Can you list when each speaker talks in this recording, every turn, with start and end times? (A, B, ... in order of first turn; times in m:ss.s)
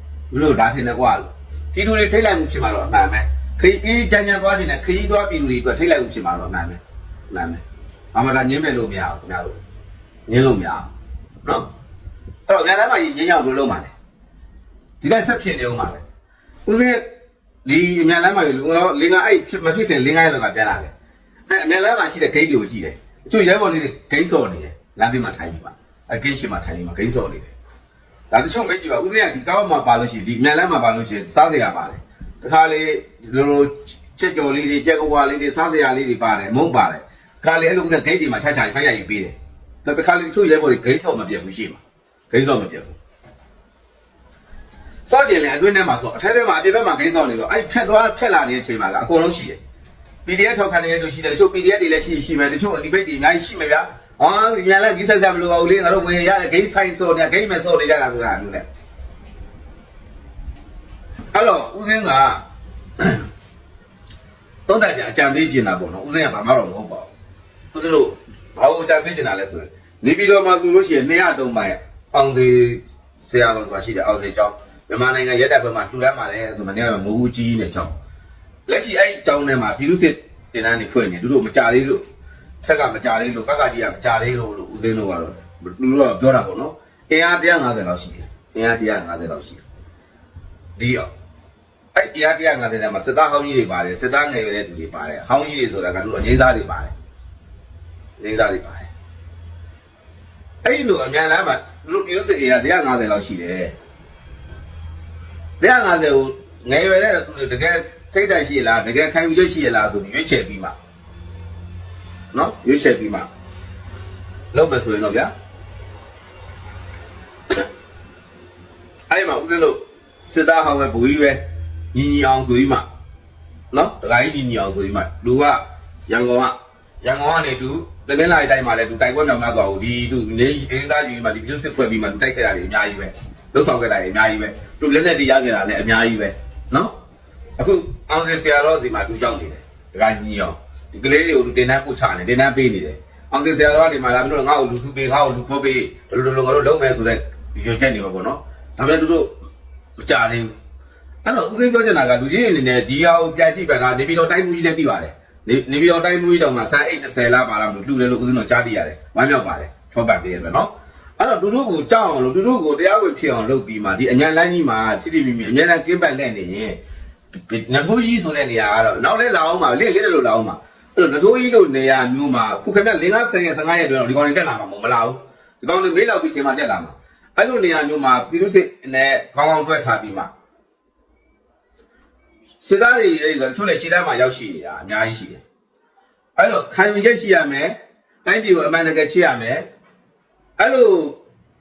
0:00.3-0:07.6 A
0:08.1-0:09.6 A
0:10.3-0:10.9 A
0:12.5-0:13.9 A
0:15.0-0:16.0 A
0:16.7-0:17.0 A
0:17.6-0:20.9 A
0:21.5-0:27.5 A
0:28.3-0:43.0 A
0:45.1-0:49.6 A
0:50.3-0:58.7 A
1:01.3-1:02.4 A
1:03.0-1:03.2 A
1:04.7-1:07.1 A
1:07.7-1:18.0 A
1:18.7-1:22.0 A
1:22.6-1:29.6 A
1:30.8-1:31.1 A
1:32.0-1:37.0 A
1:38.2-1:38.9 A
1:40.6-1:43.8 A
1:45.6-1:50.8 A
1:52.3-1:53.3 A
1:54.5-1:55.3 A
1:59.1-2:01.4 A
2:01.9-2:02.8 A
2:03.7-2:16.9 A
2:17.6-2:29.3 A
2:30.0-2:30.6 A
2:31.2-2:46.8 A
2:47.4-3:00.3 A
3:02.6-3:05.4 A
3:06.4-3:09.6 A
3:10.6-3:11.2 A